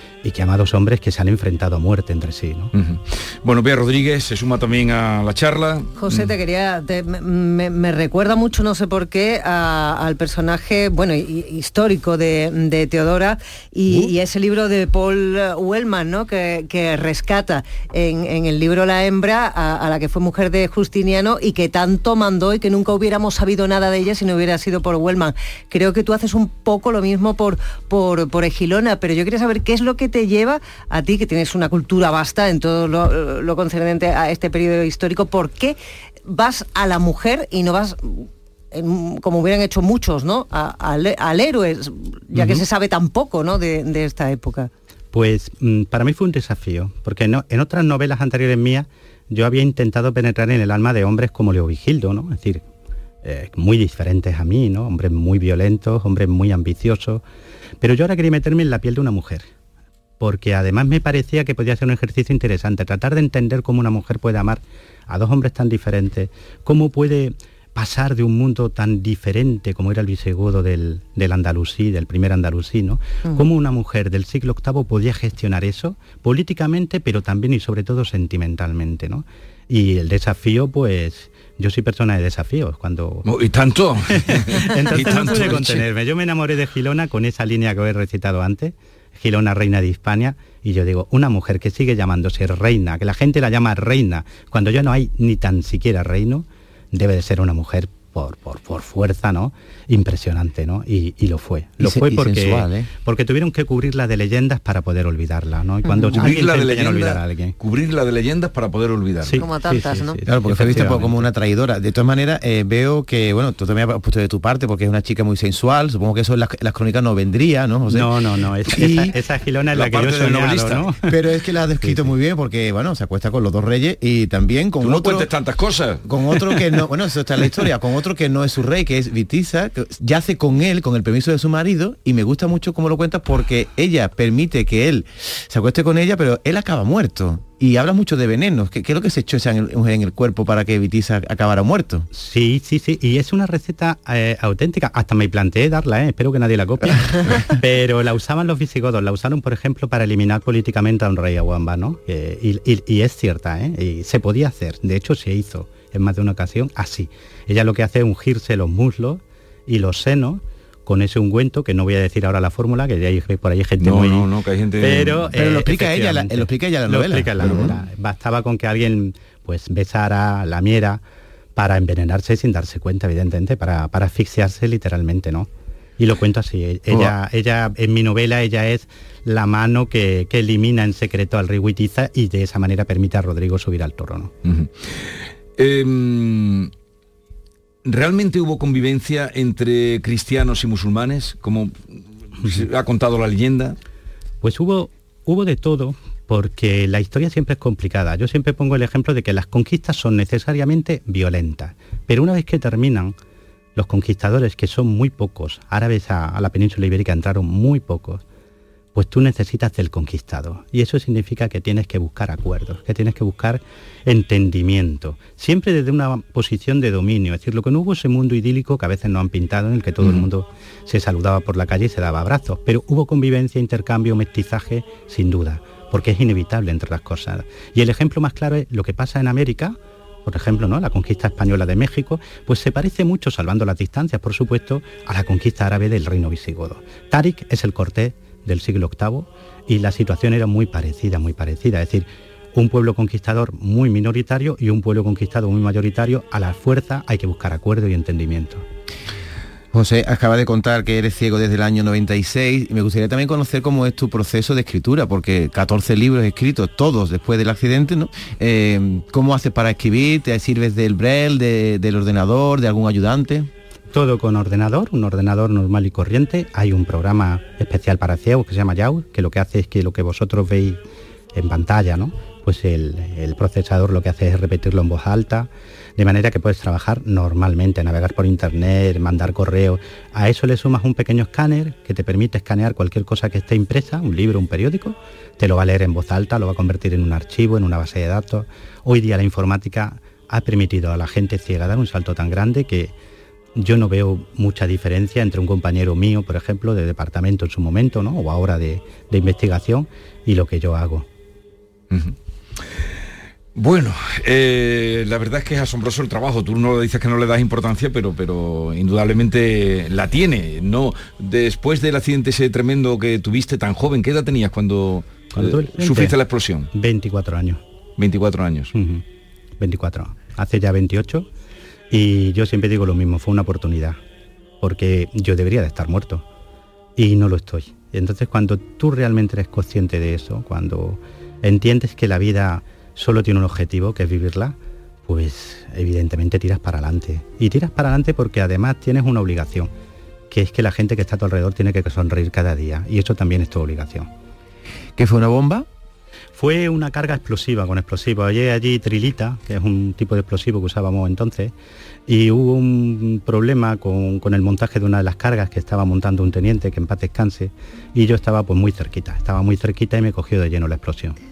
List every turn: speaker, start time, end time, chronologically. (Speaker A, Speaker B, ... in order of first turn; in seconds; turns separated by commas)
Speaker A: 0.2-2.7, Speaker B: 2.7-6.3, Speaker C: 6.0-44.7, Speaker A: 42.3-42.6, Speaker A: 45.1-52.6, Speaker A: 53.2-57.2, Speaker A: 57.8-59.5, Speaker A: 60.2-83.3, Speaker B: 83.3-85.9, Speaker A: 84.1-107.5, Speaker D: 101.8-102.9, Speaker C: 105.9-106.2, Speaker B: 106.1-109.4, Speaker A: 109.2-111.3, Speaker C: 109.3-110.2, Speaker D: 110.3-118.1, Speaker A: 117.9-121.1, Speaker D: 118.7-119.2, Speaker B: 119.7-120.9, Speaker D: 121.1-125.3, Speaker A: 121.8-122.1, Speaker B: 124.8-126.7, Speaker D: 126.0-142.1, Speaker A: 142.1-164.3, Speaker B: 163.8-165.3, Speaker A: 164.8-171.0, Speaker D: 165.3-167.8, Speaker B: 167.4-167.8, Speaker A: 171.6-184.3, Speaker D: 176.9-177.2, Speaker B: 184.4-186.7, Speaker B: 187.8-191.8, Speaker B: 192.4-193.8, Speaker A: 194.4-203.2, Speaker A: 203.8-208.2, Speaker A: 208.9-248.6, Speaker B: 220.0-220.3, Speaker D: 249.7-263.5, Speaker A: 263.9-270.8, Speaker A: 271.4-292.9, Speaker A: 293.6-301.1, Speaker B: 301.9-302.7, Speaker B: 303.6-316.7, Speaker A: 315.3-316.2, Speaker A: 316.7-317.6, Speaker B: 318.0-318.7, Speaker A: 318.7-319.0, Speaker A: 319.6-321.3, Speaker A: 321.9-324.0, Speaker A: 324.6-326.3, Speaker A: 327.0-339.7, Speaker A: 340.3-344.1, Speaker D: 345.0-345.7, Speaker A: 346.4-351.5, Speaker A: 352.1-361.2